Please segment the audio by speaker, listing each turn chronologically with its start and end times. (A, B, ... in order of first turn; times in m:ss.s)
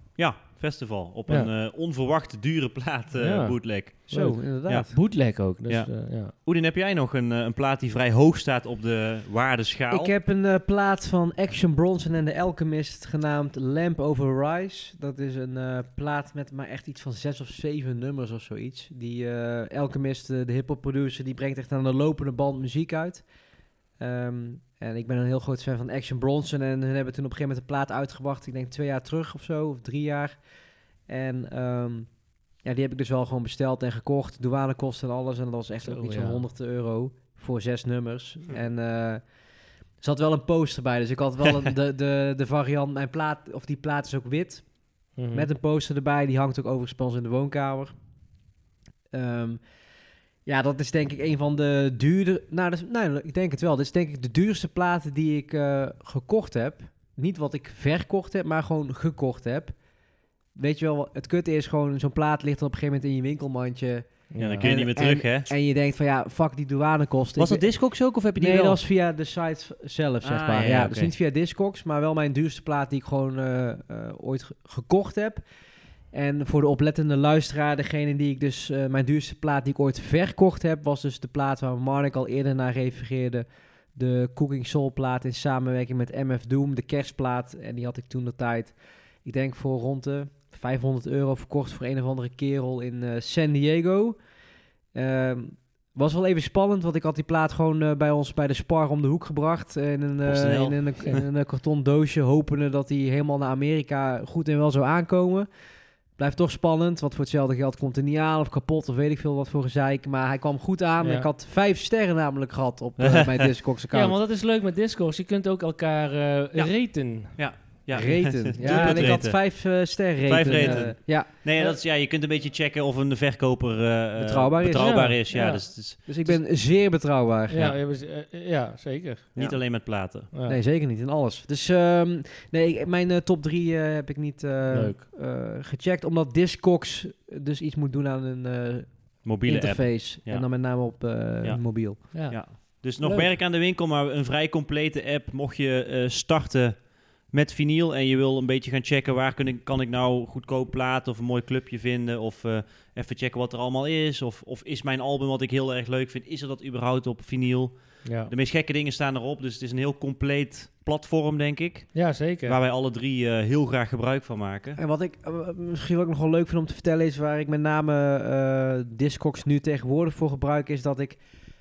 0:00.2-0:04.1 A
0:03.2-0:06.3 B
0:04.1-0:05.0 C
0:04.7-0:10.1 A
0:09.9-0:23.2 C
0:24.0-0:30.4 C
0:31.1-0:39.2 C
0:35.8-0:36.4 B
0:40.0-0:47.9 C
0:45.2-0:45.5 B
0:49.1-0:49.6 C
0:50.5-0:59.8 C
1:00.6-1:04.1 C
1:04.3-1:04.7 B
1:04.4-1:05.5 A
1:04.6-1:15.4 C
1:07.4-1:08.8 A
1:10.2-1:11.1 A
1:16.1-1:34.2 C
1:34.9-1:45.5 C
1:40.2-1:41.2 A
1:46.2-1:54.2 C
1:51.0-1:51.3 B
1:53.0-1:53.5 A
1:53.9-1:57.4 B
1:56.6-1:59.5 A
1:57.9-2:01.3 C
1:58.6-1:59.1 B
2:00.3-2:06.4 A
2:00.6-2:00.9 B
2:04.2-2:05.2 C
2:04.7-2:05.7 B
2:06.0-2:07.7 C
2:07.5-2:09.3 B
2:09.4-2:10.3 A
2:09.4-2:09.6 C
2:10.3-2:10.6 B
2:10.4-2:22.0 C
2:14.7-2:15.0 B
2:19.2-2:20.7 A
2:21.4-2:44.8 A
2:22.1-2:23.3 B
2:38.0-2:38.3 B
2:41.9-2:42.6 B
2:44.8-2:51.2 C